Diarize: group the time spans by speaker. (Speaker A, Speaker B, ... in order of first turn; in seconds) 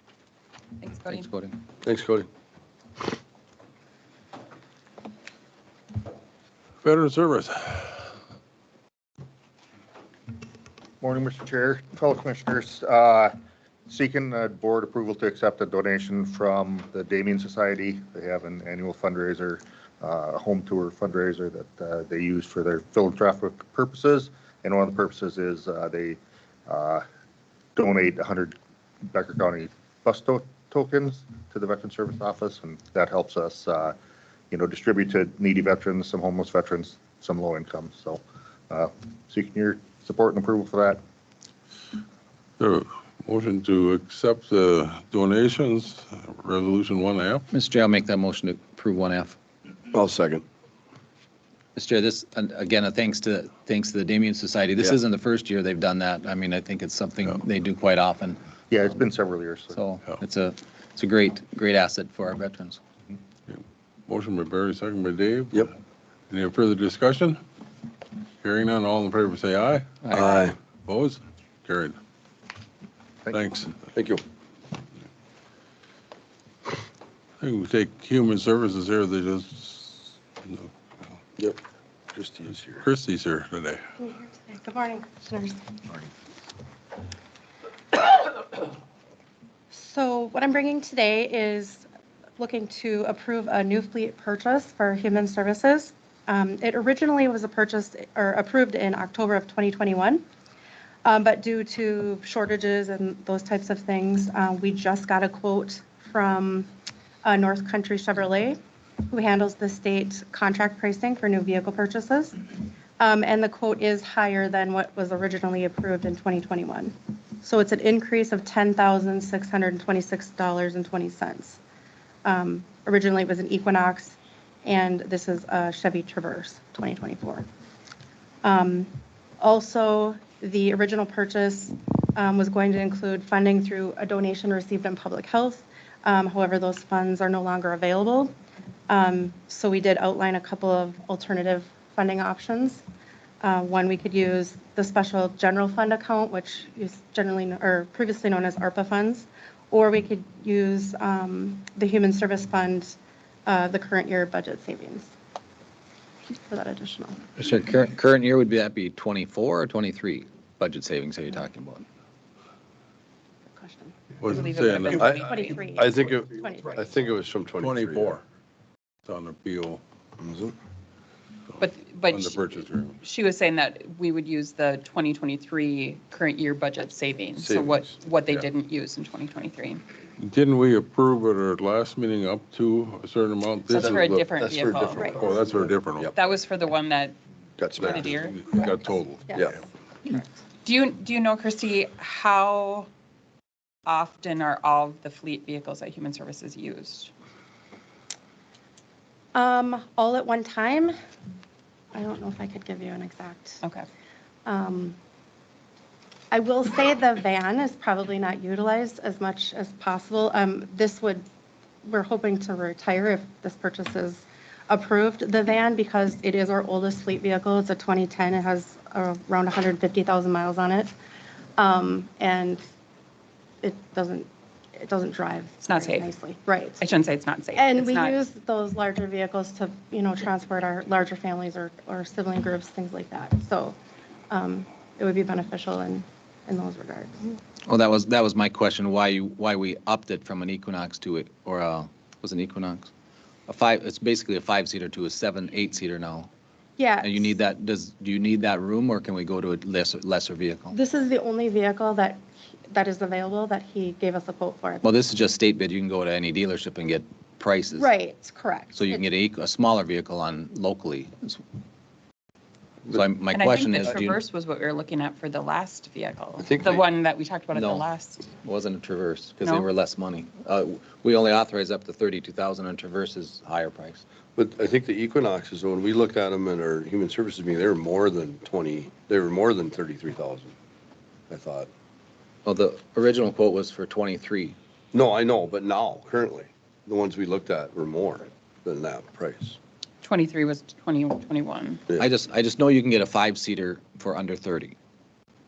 Speaker A: 0.8-1.3, 164.3-165.7, 171.6-179.8, 183.7-185.2, 186.1-187.2, 187.8-188.4, 190.6-192.9, 193.8-197.1, 225.6-226.1, 226.8-228.1, 263.3-268.3, 269.4-269.7, 290.0-291.8
Speaker B: 1.1-1.6, 47.5-49.4, 51.8-58.4, 59.7-62.8, 70.0-70.5, 157.4-161.8, 237.7-242.9, 243.5-246.3, 247.0-250.8, 254.8-257.9, 258.7-261.4, 262.8-264.2, 267.5-267.8, 268.4-274.0, 282.4-284.6, 292.0-294.8
Speaker C: 1.8-2.3, 49.9-50.4, 70.1-70.5, 73.9-74.2, 82.1-82.8, 164.9-168.2, 170.2-170.5, 177.4-178.3, 183.7-186.1, 187.6-188.3, 189.3-189.6, 266.4-266.9, 274.4-280.5, 281.3-281.7, 284.9-289.6
Speaker D: 6.8-8.1, 42.6-47.4, 63.5-65.7, 66.3-67.4, 68.4-72.0, 73.3-73.8, 77.4-80.7, 82.8-83.8, 164.2-165.1, 167.6-168.2, 169.1-169.8, 171.6-173.0, 180.2-184.0, 185.0-186.1, 187.8-189.6
Speaker E: 11.0-13.3, 13.9-27.0, 27.8-33.9, 34.5-41.0, 58.7-59.8
Speaker F: 84.0-85.8, 89.7-91.9, 92.4-100.2, 101.0-106.7, 107.2-108.6, 109.1-121.6, 122.2-127.5, 128.4-138.3, 138.9-142.8, 143.4-155.1, 156.5-157.2, 163.5-163.9, 165.2-167.0, 189.3-190.4, 199.3-200.9, 201.9-203.6, 204.4-205.0, 206.3-211.2, 211.8-220.9, 221.6-222.6, 223.6-226.8, 227.5-233.8, 234.3-237.3, 246.8-247.3, 250.7-254.8, 257.8-259.0